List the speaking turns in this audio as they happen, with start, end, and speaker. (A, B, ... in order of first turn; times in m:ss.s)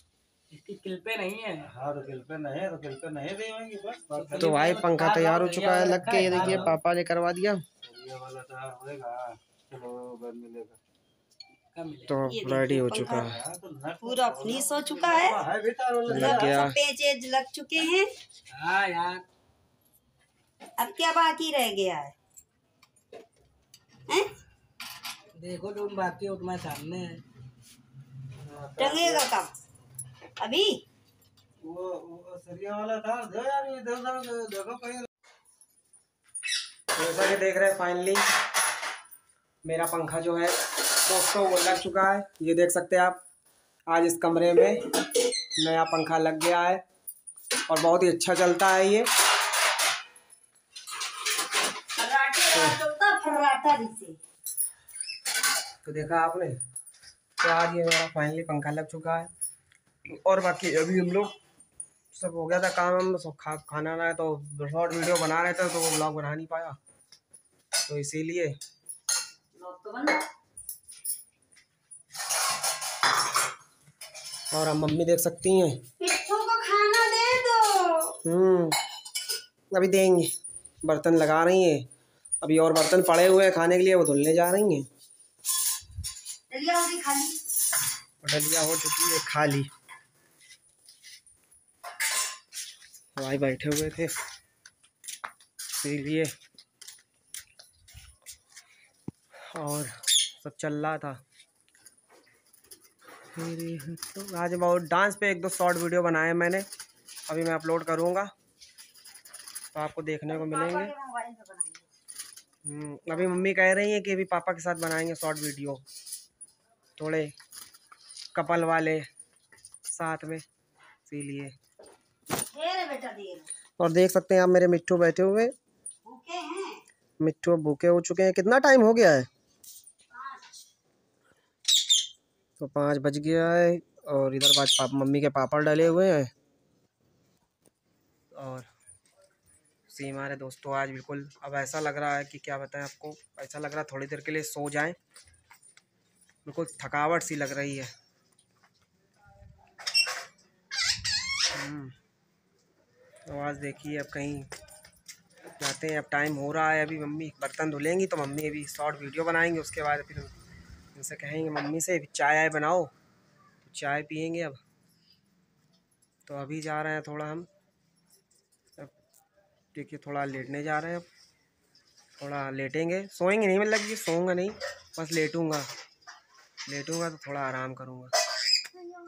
0:00.5-0:01.7 A
0:01.7-0:04.6 B
0:04.1-0:06.7 A
0:04.4-0:07.6 C
0:06.2-0:06.7 B
0:07.8-0:10.8 B
0:11.7-0:12.2 A
0:12.1-0:13.4 C
0:12.2-0:13.3 D
0:13.0-0:16.6 B
0:14.0-0:15.4 D
0:16.1-0:18.1 D
0:16.1-0:16.8 C
0:18.5-0:19.2 A
0:20.8-0:22.1 D
0:25.3-0:27.2 A
0:28.4-0:29.3 B
0:28.8-0:29.5 D
0:30.4-0:30.8 D
0:31.6-0:35.1 B
0:36.9-0:38.2 C
0:39.6-0:43.2 C
0:43.9-0:44.9 C
0:45.6-0:46.8 C
0:47.6-0:49.1 C
0:51.9-0:54.2 D
0:52.5-0:52.8 C
0:55.8-0:56.6 C
0:57.4-0:59.3 C
1:00.1-1:01.3 C
1:02.1-1:06.8 C
1:07.8-1:08.6 C
1:09.5-1:10.2 D
1:14.5-1:15.8 C
1:16.0-1:18.2 D
1:18.2-1:18.8 C
1:19.7-1:20.3 C
1:20.8-1:21.9 C
1:22.4-1:24.9 C
1:26.5-1:27.4 D
1:28.2-1:29.7 C
1:33.1-1:34.1 C
1:35.8-1:36.3 C
1:39.4-1:41.2 C
1:43.3-1:46.7 C
1:47.3-1:48.3 C
1:49.7-1:50.9 C
1:50.2-1:51.9 D
1:52.6-1:55.8 C
1:57.0-1:57.3 C
1:58.3-1:59.1 C
1:59.8-2:00.4 C
2:01.0-2:01.6 C
2:02.5-2:03.5 D
2:03.8-2:05.5 C
2:06.0-2:06.8 D
2:07.2-2:09.3 C
2:10.1-2:10.7 D
2:12.6-2:16.3 C
2:18.3-2:18.7 C
2:19.9-2:25.0 C
2:26.4-2:27.9 C
2:31.5-2:32.0 C
2:33.2-2:34.5 C
2:35.6-2:40.3 C
2:40.9-2:42.9 C
2:43.6-2:44.6 C
2:46.2-2:47.5 C
2:49.7-2:51.1 C
2:52.2-2:55.7 C
2:56.6-2:58.1 C